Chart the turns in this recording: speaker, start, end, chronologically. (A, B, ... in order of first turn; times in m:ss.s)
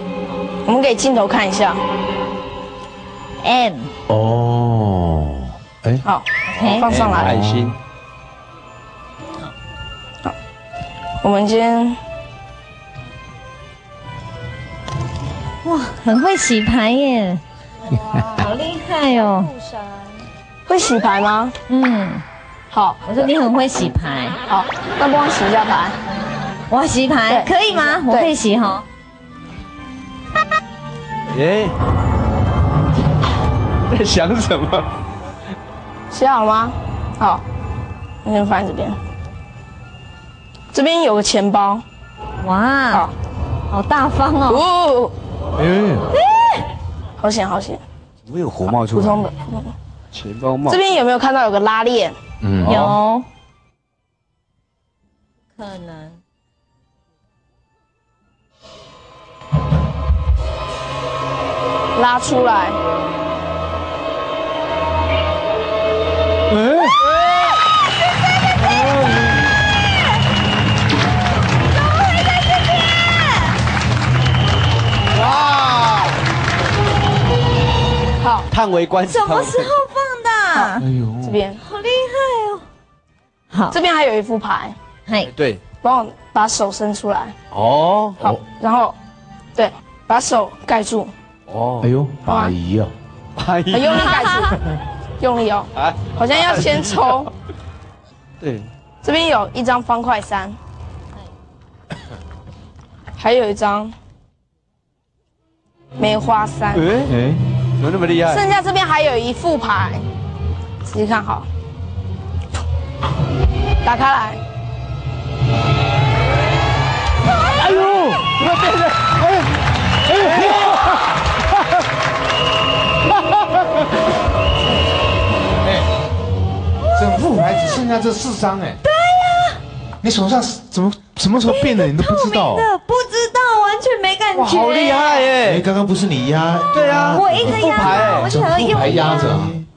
0:00.6-0:01.8 A
0:03.4-0:03.9 B
0:04.1-0:06.0 C
0:06.0-0:07.4 A
0:06.5-0:06.9 B
0:06.7-0:07.8 D
0:07.2-0:07.7 C
0:11.2-0:12.0 A
0:15.6-0:17.4 B
0:18.2-0:19.5 B
0:20.7-0:21.6 A
0:21.7-0:22.2 B
0:22.7-0:23.3 A
0:23.1-0:24.4 B
0:24.5-0:26.0 A
0:26.7-0:28.8 B
0:27.3-0:28.3 A
0:31.3-0:31.8 D
0:33.9-0:34.9 D
0:36.1-0:37.4 A
0:38.2-0:39.0 A
0:40.7-0:41.8 A
0:42.4-0:43.1 B
0:43.7-0:44.6 B
0:44.5-0:45.1 A
0:45.6-0:46.0 D
0:46.1-0:46.6 B
0:47.2-0:47.8 A
0:48.3-0:49.3 D
0:48.9-0:49.7 A
0:50.1-0:50.9 D
0:50.7-0:52.2 A
0:52.4-0:52.9 C
0:52.6-0:53.0 D
0:52.6-0:53.3 B
0:55.6-0:56.2 B
1:02.0-1:02.8 A
1:11.7-1:13.5 B
1:15.1-1:16.2 D
1:18.2-1:18.5 A
1:18.5-1:19.7 D
1:19.0-1:20.9 B
1:20.6-1:21.6 A
1:20.8-1:21.4 C
1:21.6-1:22.7 B
1:23.5-1:23.8 B
1:23.7-1:24.8 A
1:25.3-1:25.6 D
1:25.8-1:27.4 A
1:27.5-1:28.2 D
1:28.2-1:29.0 A
1:29.6-1:31.1 A
1:31.5-1:31.9 D
1:31.8-1:32.9 C
1:32.2-1:32.5 A
1:33.4-1:34.3 D
1:33.7-1:34.6 A
1:35.2-1:37.3 A
1:35.8-1:36.9 D
1:38.4-1:38.7 D
1:39.0-1:40.6 A
1:43.2-1:44.0 A
1:46.0-1:46.9 A
1:46.7-1:48.5 D
1:48.3-1:50.1 A
1:50.8-1:51.5 A
1:53.8-1:54.4 A
1:58.0-1:58.3 D
2:07.0-2:08.8 C
2:08.8-2:09.6 B
2:10.0-2:12.7 C
2:11.5-2:15.3 B
2:14.4-2:15.7 D
2:15.5-2:19.7 C
2:16.7-2:18.3 D
2:17.1-2:19.3 B